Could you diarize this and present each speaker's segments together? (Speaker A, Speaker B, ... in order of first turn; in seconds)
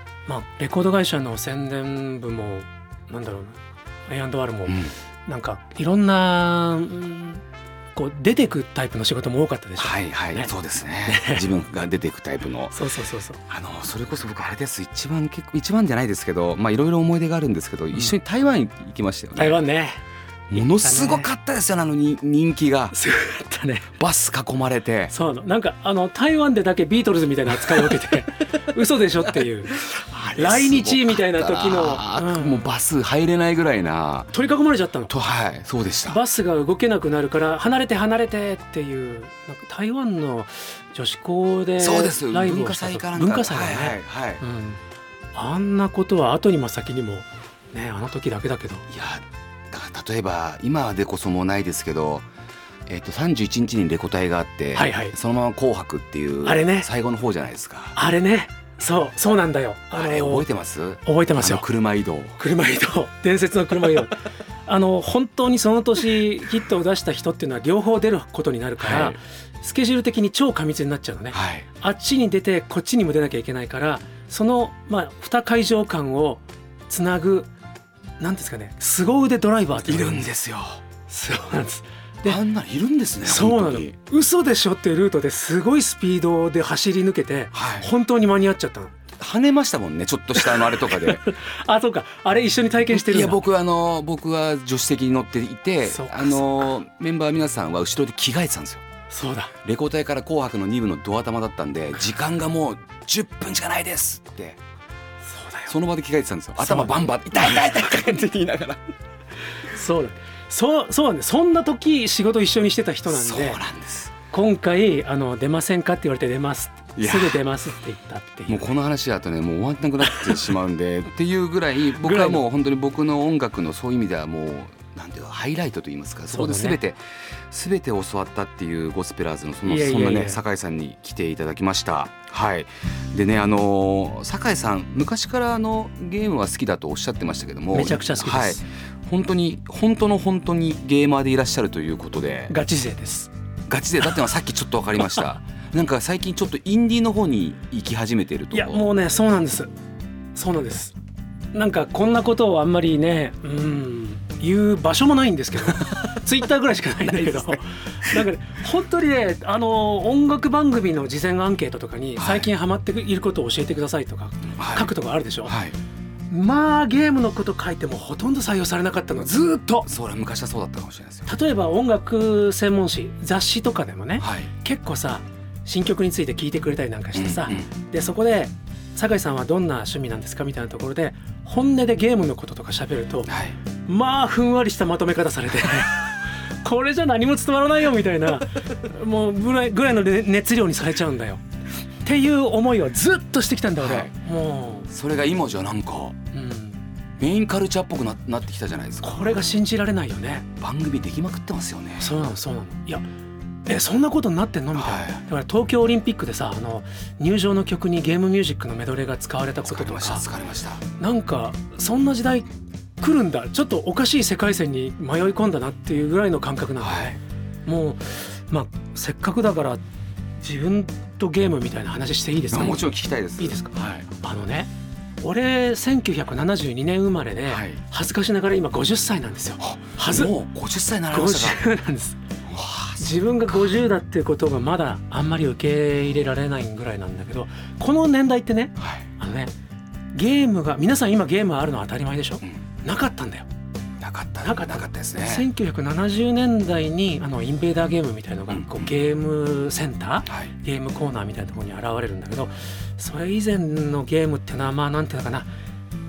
Speaker A: 0.3-7.4, 7.9-10.5, 11.0-11.5, 12.7-13.4, 19.4-20.0, 20.6-21.3, 22.9-23.9, 25.1-32.7, 34.3-35.1, 36.1-44.8, 45.3-48.8, 54.8-55.1, 56.4-56.9, 58.0-60.4, 61.0-61.6, 62.4-77.5, 78.2-80.3, 81.1-82.4, 83.2-88.9, 90.4-93.4, 95.9-96.5, 99.1-99.5, 105.2-105.7, 106.6-107.9, 109.6-113.6, 114.3-118.7, 121.9-122.4, 126.3-126.8, 129.7-130.4, 137.7-138.6, 142.5-143.3, 148.5-149.7, 150.3-150.9, 151.5-165.6, 166.3-169.9, 171.3-186.1, 186.6-191.4, 192.1-194.9, 196.3-196.8, 199.0-200.4, 202.0-203.0, 203.7-210.2, 211.0-212.5, 213.0-219.8, 220.4-222.9, 223.4-224.7, 225.2-230.3, 231.1-232.2, 233.0-239.5, 240.1-243.5, 244.4-255.5
Speaker B: 4.7-4.9, 9.8-12.8, 13.5-19.6, 20.5-22.9, 24.0-25.1, 29.8-34.3, 35.1-36.2, 41.8-44.4, 48.9-52.3, 52.9-58.0, 60.0-62.4, 68.8-69.2, 71.3-71.7, 79.8-80.8, 82.2-83.9, 87.5-87.9, 89.2-91.2, 92.9-98.8, 99.6-104.6, 105.7-108.9, 113.1-114.1, 117.0-117.4, 118.5-142.6, 143.7-148.9, 155.7-156.2, 157.1-157.6, 162.2-162.5, 164.6-164.9, 165.4-165.8, 169.9-171.3, 174.2-174.5, 177.2-177.7, 183.3-183.6, 193.8-194.1, 194.9-196.2, 197.2-199.4, 200.6-202.1, 204.8-205.2, 209.7-210.8, 216.8-217.2, 222.5-224.1, 227.5-227.8, 229.6-231.6, 232.4-233.7, 238.8-239.1, 244.0-245.5, 248.5-248.9